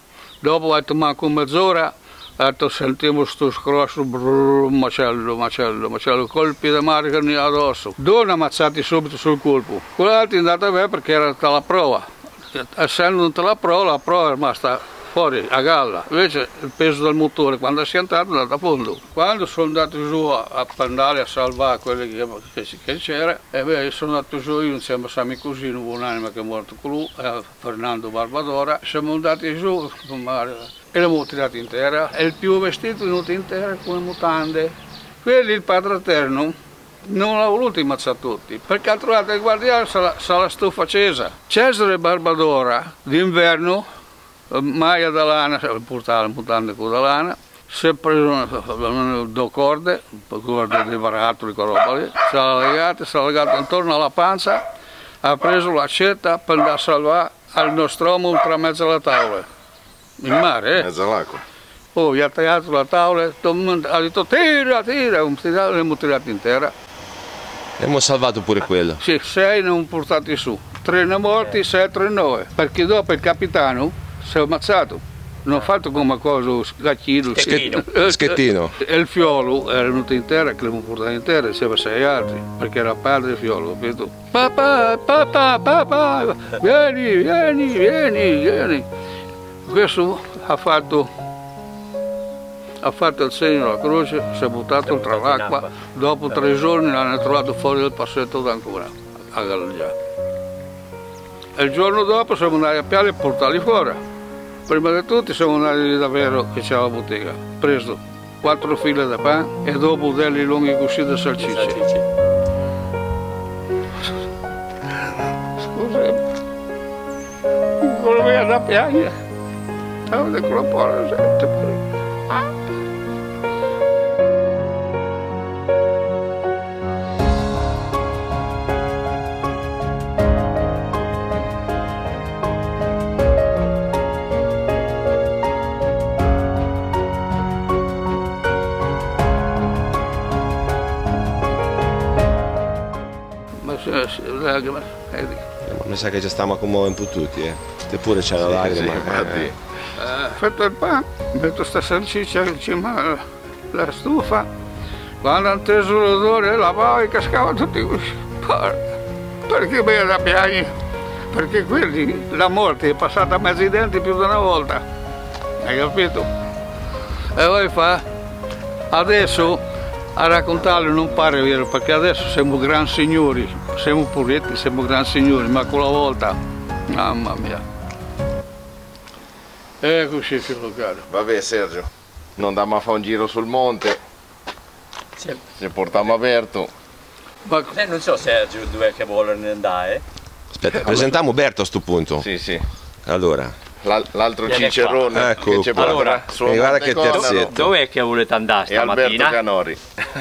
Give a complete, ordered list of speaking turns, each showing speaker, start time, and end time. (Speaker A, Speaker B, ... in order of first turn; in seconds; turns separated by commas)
Speaker A: 0.4-43.9, Speaker A: 44.5-54.6, Speaker A: 55.2-59.5, Speaker A: 60.2-60.9, Speaker B: 60.8-61.4, Speaker A: 62.0-66.7, Speaker C: 67.8-69.0, Speaker A: 69.0-88.9, Speaker D: 77.3-77.8, Speaker C: 77.5-78.7, Speaker A: 89.7-91.1, Speaker A: 92.8-99.9, Speaker D: 94.8-95.7, Speaker A: 101.6-104.0, Speaker A: 104.7-111.8, Speaker D: 111.4-112.0, Speaker A: 115.6-116.2, Speaker A: 117.8-119.2, Speaker A: 120.1-121.8, Speaker A: 143.6-145.4, Speaker C: 145.7-149.5, Speaker B: 148.4-149.6, Speaker A: 150.0-154.5, Speaker A: 155.2-158.8, Speaker A: 159.5-160.7, Speaker A: 161.3-164.8, Speaker A: 165.6-166.3, Speaker A: 167.3-168.0, Speaker A: 168.9-169.6, Speaker A: 170.2-176.4, Speaker A: 176.9-177.6, Speaker A: 179.8-181.0, Speaker B: 181.1-184.0, Speaker B: 185.6-186.7, Speaker A: 187.5-187.7, Speaker D: 187.7-190.0, Speaker C: 190.6-192.3, Speaker B: 192.2-192.6, Speaker C: 193.1-193.5, Speaker B: 193.8-197.7, Speaker D: 194.5-196.3, Speaker C: 195.1-197.5, Speaker D: 197.4-199.4, Speaker B: 198.7-199.8